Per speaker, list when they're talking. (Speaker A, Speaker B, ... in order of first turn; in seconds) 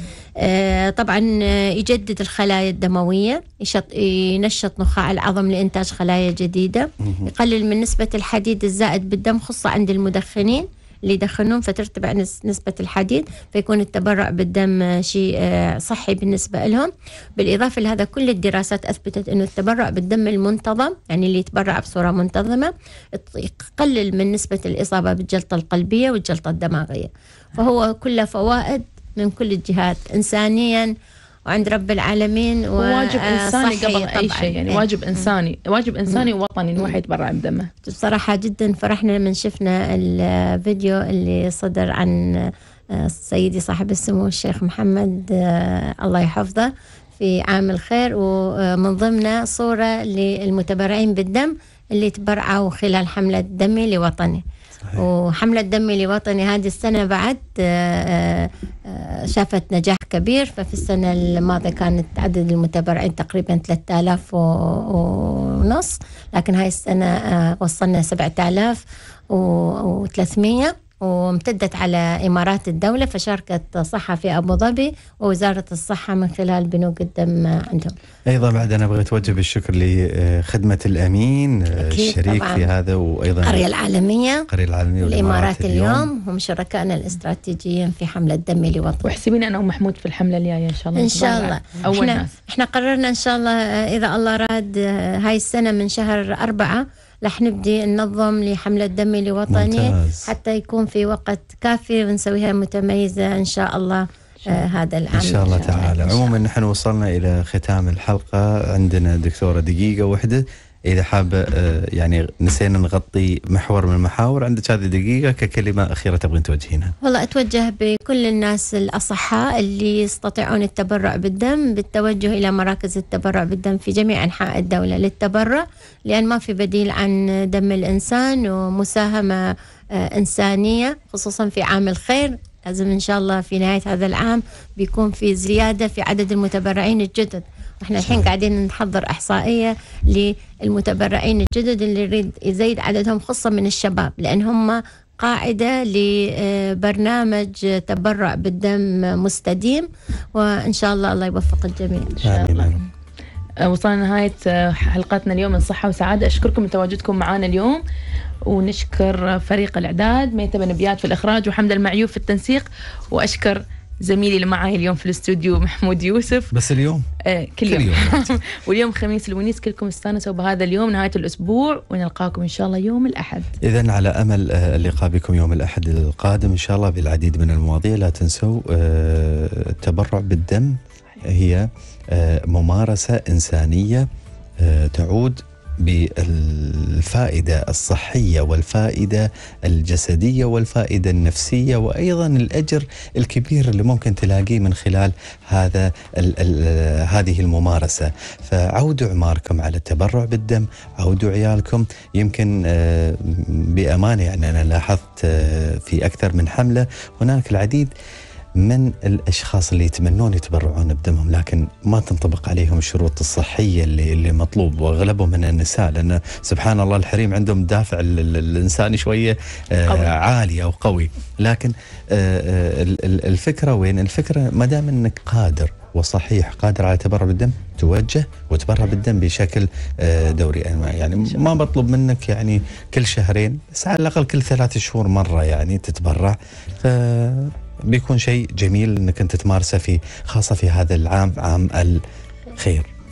Speaker A: 0.4-30.9, 31.4-35.3, 37.8-77.9, 81.7-82.7, 83.4-84.5, 85.0-89.1, 91.0-106.3, 117.0-152.7
Speaker B: 7.0-7.3, 78.3-83.6, 84.5-86.1, 99.5-100.3, 105.1-116.9, 138.0-138.3, 152.2-152.8, 166.5-167.1, 167.7-168.4, 173.6-184.1, 184.6-207.9, 208.6-242.0, 242.6-242.9
Speaker C: 32.8-37.7, 89.0-92.3, 153.6-157.8, 158.4-166.5, 167.2-173.5, 219.9-220.1